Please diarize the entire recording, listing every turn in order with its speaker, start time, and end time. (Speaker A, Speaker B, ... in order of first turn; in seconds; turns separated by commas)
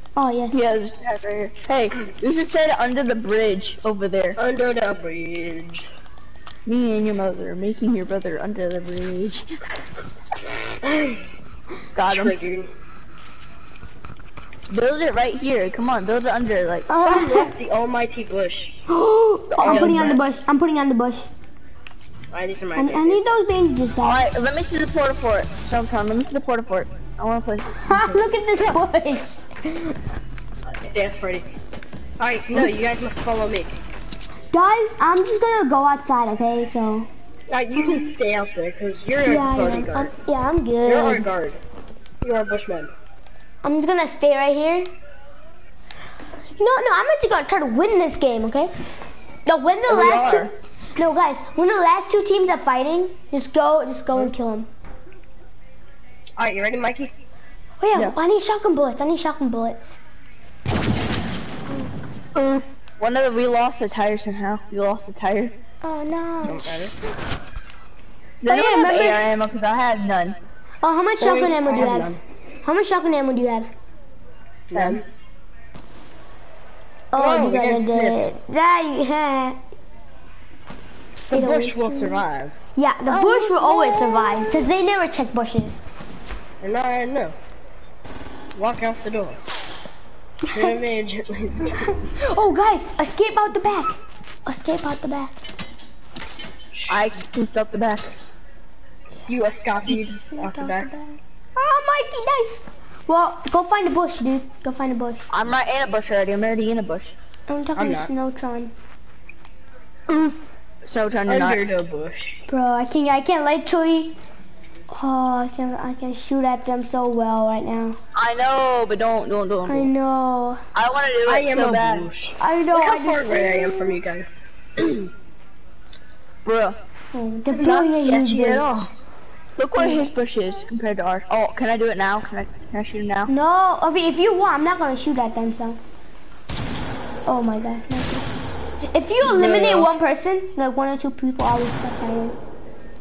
Speaker A: 0.1-0.6, Speaker B: 0.5-4.4, Speaker C: 4.4-5.8, Speaker B: 6.7-9.6, Speaker C: 10.8-11.2, Speaker B: 11.9-12.4, Speaker C: 12.0-12.7, Speaker B: 14.7-16.9, Speaker A: 16.9-17.5, Speaker C: 17.0-18.7, Speaker A: 18.9-21.3, Speaker B: 19.5-20.1, Speaker C: 19.6-20.2, Speaker C: 22.3-23.2, Speaker A: 22.8-24.2, Speaker B: 24.0-28.1, Speaker A: 27.8-30.0, Speaker C: 30.7-31.5, Speaker C: 32.2-33.7, Speaker A: 34.5-37.1, Speaker C: 37.5-40.1, Speaker A: 37.8-38.1, Speaker A: 39.2-41.3, Speaker C: 40.8-41.6, Speaker C: 42.2-42.9, Speaker A: 43.6-44.9, Speaker A: 46.6-48.7, Speaker A: 49.5-54.7, Speaker B: 49.9-50.5, Speaker C: 56.4-57.1, Speaker A: 57.8-60.0, Speaker B: 62.3-65.5, Speaker A: 65.8-67.0, Speaker C: 66.4-67.0, Speaker B: 68.4-70.4, Speaker A: 68.5-69.2, Speaker A: 70.8-72.1, Speaker C: 71.2-72.2, Speaker A: 72.6-73.7, Speaker C: 74.7-75.0, Speaker B: 74.7-75.0, Speaker A: 77.1-79.6, Speaker C: 77.1-78.2, Speaker C: 81.3-82.5, Speaker A: 81.3-82.2, Speaker A: 82.8-85.8, Speaker B: 83.0-84.5, Speaker C: 86.6-87.3, Speaker C: 88.5-89.4, Speaker A: 90.5-90.7, Speaker C: 90.5-91.9, Speaker A: 91.8-95.3, Speaker C: 96.7-97.1, Speaker B: 96.9-98.1, Speaker C: 99.3-100.9, Speaker A: 100.3-105.2, Speaker B: 105.3-107.1, Speaker A: 107.5-108.7, Speaker C: 107.8-108.1, Speaker B: 110.1-111.6, Speaker C: 111.3-112.4, Speaker A: 112.5-114.2, Speaker A: 114.9-118.0, Speaker B: 118.1-119.9, Speaker A: 119.7-120.6, Speaker B: 120.7-122.1, Speaker C: 121.2-125.1, Speaker A: 122.4-124.0, Speaker B: 126.4-126.8, Speaker A: 127.1-128.8, Speaker C: 127.5-128.9, Speaker B: 129.6-133.3, Speaker A: 133.3-135.8, Speaker A: 137.3-138.3, Speaker A: 138.8-142.4, Speaker C: 139.2-139.8